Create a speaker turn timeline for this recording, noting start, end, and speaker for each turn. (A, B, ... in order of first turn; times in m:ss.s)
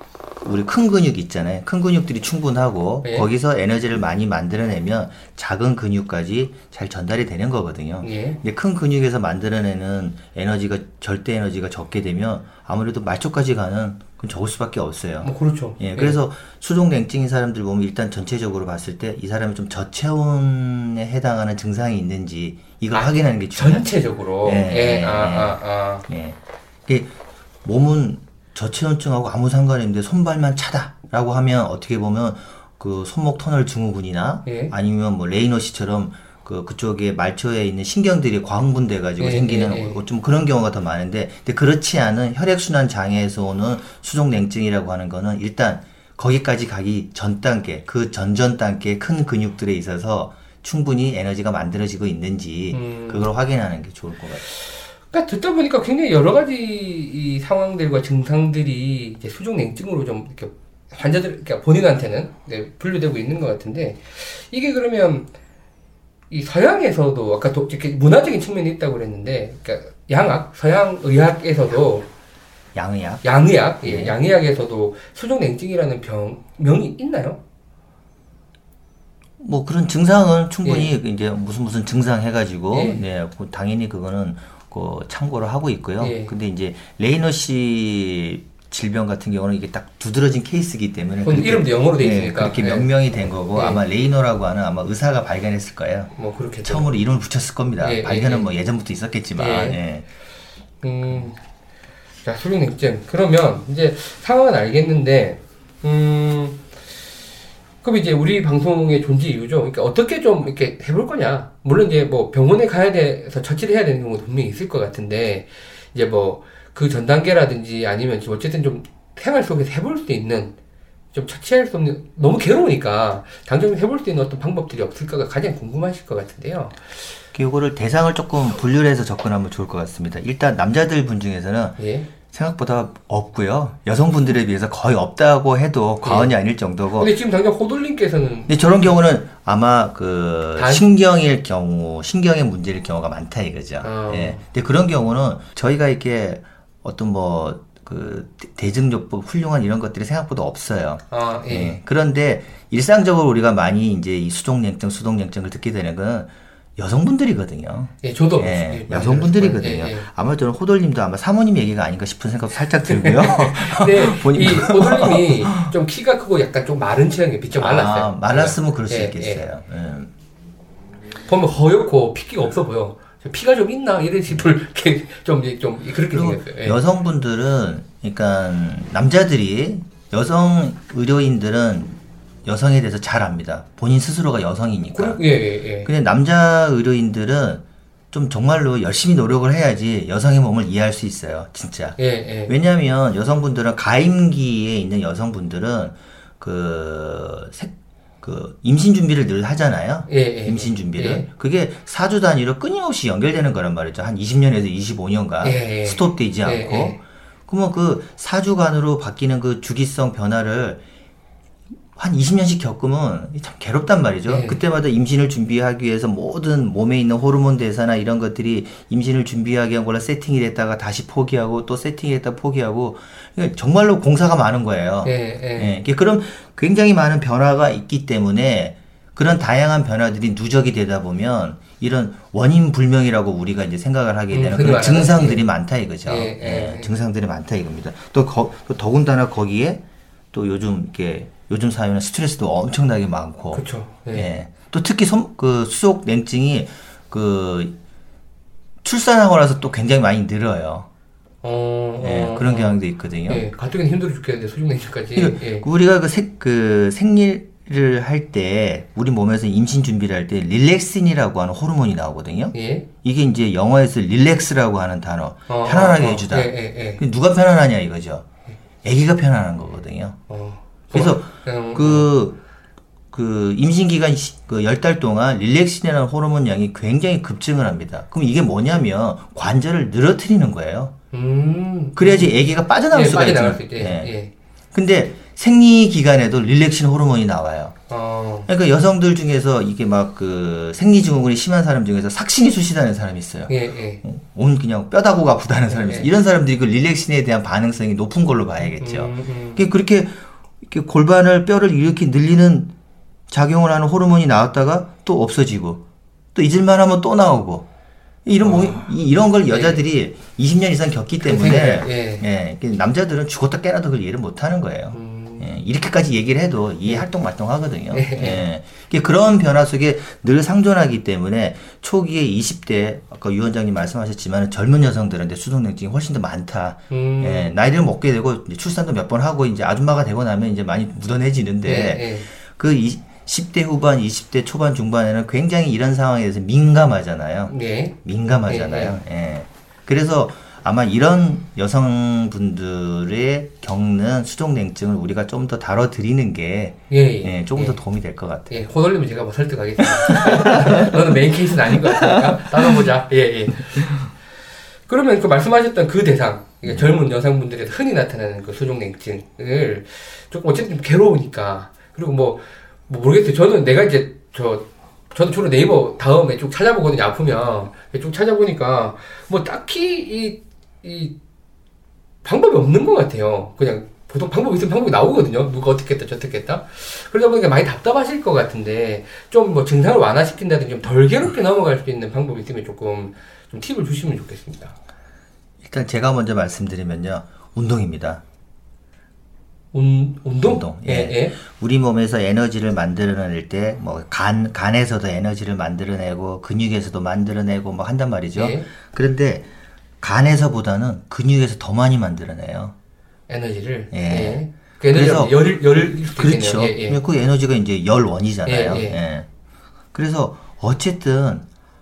0:00.4-0:54.4 A
0:03.0-0:03.3 B
0:08.0-0:08.4 B
0:15.2-0:16.2 B
0:22.9-0:26.0 B
0:34.4-0:34.7 B
0:39.2-0:40.0 B
0:52.7-0:53.3 B
0:55.1-1:05.3 B
1:06.3-1:12.1 B
1:12.7-1:14.2 A
1:13.2-1:17.4 B
1:19.4-1:36.1 A
1:20.6-1:20.9 B
1:22.7-1:23.0 B
1:26.0-1:26.3 B
1:31.2-1:33.8 B
1:36.2-1:36.9 B
1:36.6-1:40.0 A
1:37.8-1:38.4 B
1:39.4-1:39.8 B
1:40.8-1:41.4 B
1:42.2-1:46.6 B
1:47.8-2:00.5 B
2:01.1-2:06.9 B
2:07.3-2:17.1 A
2:11.8-2:12.1 B
2:16.0-2:16.3 B
2:17.0-2:19.0 B
2:18.5-2:45.7 A
2:20.6-2:20.8 B
2:23.8-2:24.4 B
2:31.1-2:31.8 B
2:38.0-2:40.1 B
2:42.8-2:49.4 B
2:47.6-2:50.1 A
2:51.2-2:56.8 B
2:56.1-3:05.2 A
3:04.9-3:05.9 B
3:05.8-3:30.8 A
3:12.0-3:12.5 B
3:20.1-3:21.2 B
3:25.4-3:27.0 B
3:31.9-3:59.8 A
3:34.3-3:34.6 B
3:45.0-3:45.8 B
3:54.3-3:55.4 B
3:56.0-3:56.9 B
4:00.3-4:07.7 A
4:03.5-4:04.3 B
4:08.8-4:10.9 A
4:11.4-4:15.6 B
4:12.0-4:13.5 A
4:15.1-4:28.2 A
4:22.5-4:22.9 B
4:25.5-4:27.0 B
4:28.8-4:30.2 A
4:30.3-4:32.1 B
4:30.9-4:32.4 A
4:33.1-4:40.9 A
4:41.1-4:44.3 B
4:42.0-4:44.1 A
4:44.7-4:47.8 A
4:47.9-4:48.5 B
4:48.5-4:53.5 A
4:53.5-4:54.0 B
4:54.0-5:02.7 A
4:55.7-4:56.1 B
4:58.8-4:59.6 B
5:03.3-5:05.8 A
5:06.3-5:07.7 A
5:08.2-5:48.5 A
5:08.4-5:08.9 B
5:09.5-5:09.8 B
5:11.2-5:12.2 B
5:14.9-5:15.5 B
5:17.9-5:18.4 B
5:26.9-5:27.5 B
5:31.6-5:32.3 B
5:37.5-5:37.9 B
5:38.5-5:39.0 B
5:46.9-5:47.8 B
5:48.5-5:54.1 B
5:50.0-5:51.0 A
5:51.7-5:52.8 A
5:54.9-6:11.1 B
6:12.2-6:24.7 B
6:25.6-6:28.2 A
6:29.7-6:31.4 B
6:30.4-6:39.5 A
6:38.3-6:38.6 B
6:40.0-6:42.7 A
6:43.3-6:47.0 B
6:43.9-6:44.4 A
6:44.9-6:45.3 A
6:46.0-6:49.3 A
6:48.4-6:49.0 B
6:49.9-6:51.4 A